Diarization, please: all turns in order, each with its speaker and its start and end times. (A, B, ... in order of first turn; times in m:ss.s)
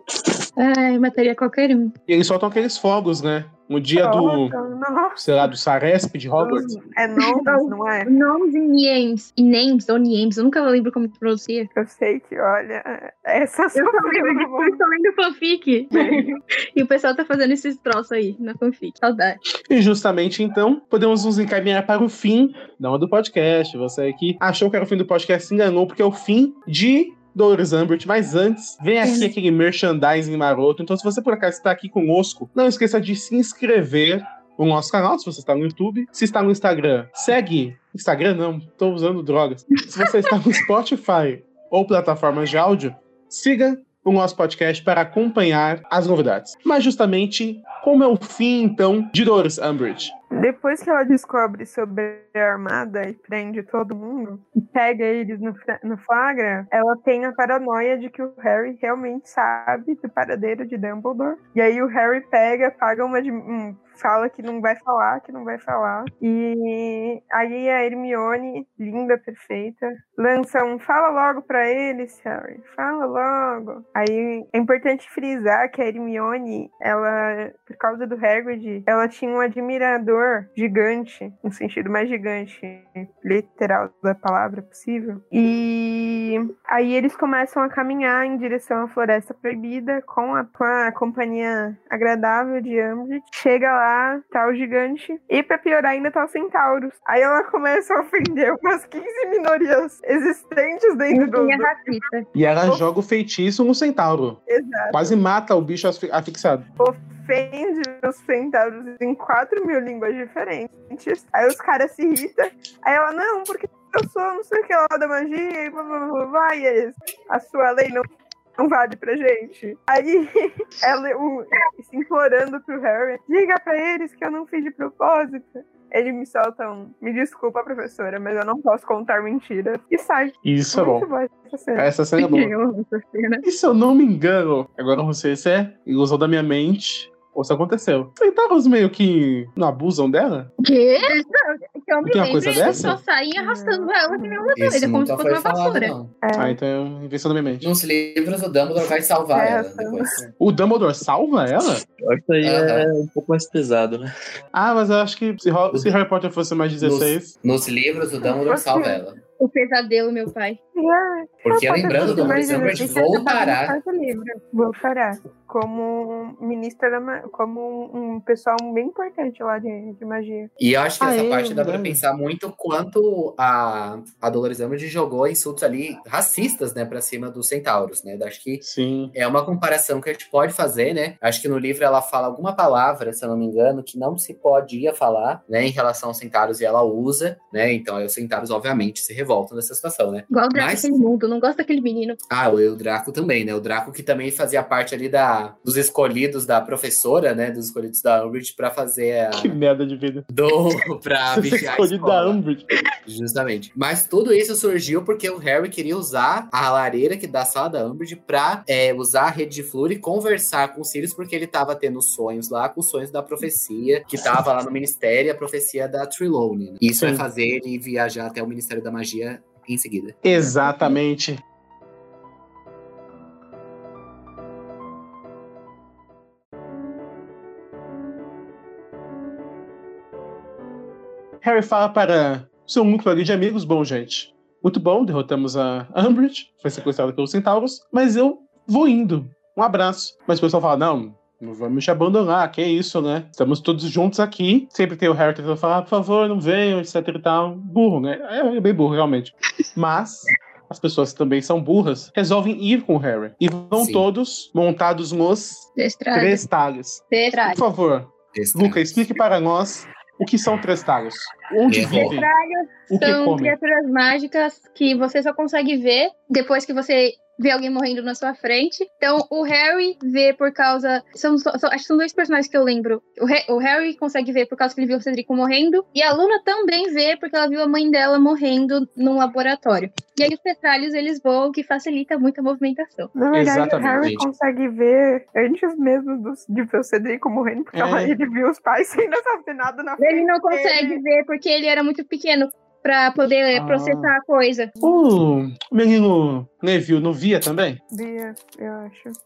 0:00.6-0:01.9 A
0:02.1-0:04.6 B
0:04.0-0:05.2 C
0:05.2-0:06.7 B
0:06.4-0:08.1 C
0:07.2-0:11.7 A
0:11.8-0:14.8 C
0:13.7-0:19.4 A
0:16.0-0:16.3 C
0:19.7-0:50.1 B
0:29.0-0:29.3 A
0:50.3-1:41.9 C
1:41.1-1:42.2 A
1:42.4-1:44.4 B
1:44.5-1:45.2 C
1:44.9-1:46.7 B
1:46.8-1:58.1 C
1:58.6-2:11.9 C
2:10.4-2:11.1 B
2:11.8-2:12.5 B
2:12.2-2:13.4 A
2:13.4-2:20.5 B
2:20.6-2:25.9 A
2:22.0-2:23.0 B
2:23.4-2:24.5 C
2:24.6-2:26.1 D
2:26.2-2:26.6 C
2:26.4-2:27.7 B
2:27.6-2:30.2 D
2:29.3-2:30.2 C
2:30.4-2:31.8 B
2:32.0-2:34.1 E
2:32.4-2:32.9 D
2:34.5-2:37.3 B
2:36.8-2:39.2 D
2:38.2-2:39.0 C
2:39.4-2:40.6 A
2:40.8-2:50.5 C
2:41.4-2:43.8 D
2:41.9-2:43.0 B
2:50.6-3:11.0 D
2:51.0-2:52.0 B
2:58.6-2:59.2 B
3:10.3-3:12.2 A
3:12.3-3:19.6 D
3:19.4-3:20.3 B
3:20.3-3:22.4 D
3:21.3-3:22.6 B
3:23.1-3:40.6 D
3:36.9-3:37.2 B
3:40.2-3:41.4 B
3:51.4-4:22.3 B
4:13.8-4:14.1 D
4:15.8-4:16.4 A
4:17.1-4:17.6 A
4:18.3-4:19.1 D
4:21.7-4:22.2 D
4:21.9-4:43.1 A
4:22.9-4:23.6 B
4:43.2-4:51.0 C
4:43.3-4:44.1 B
4:44.0-4:44.3 D
4:47.7-4:48.1 B
4:50.0-4:54.7 A
4:53.5-4:54.1 B
4:54.8-4:57.8 B
4:57.9-4:59.2 C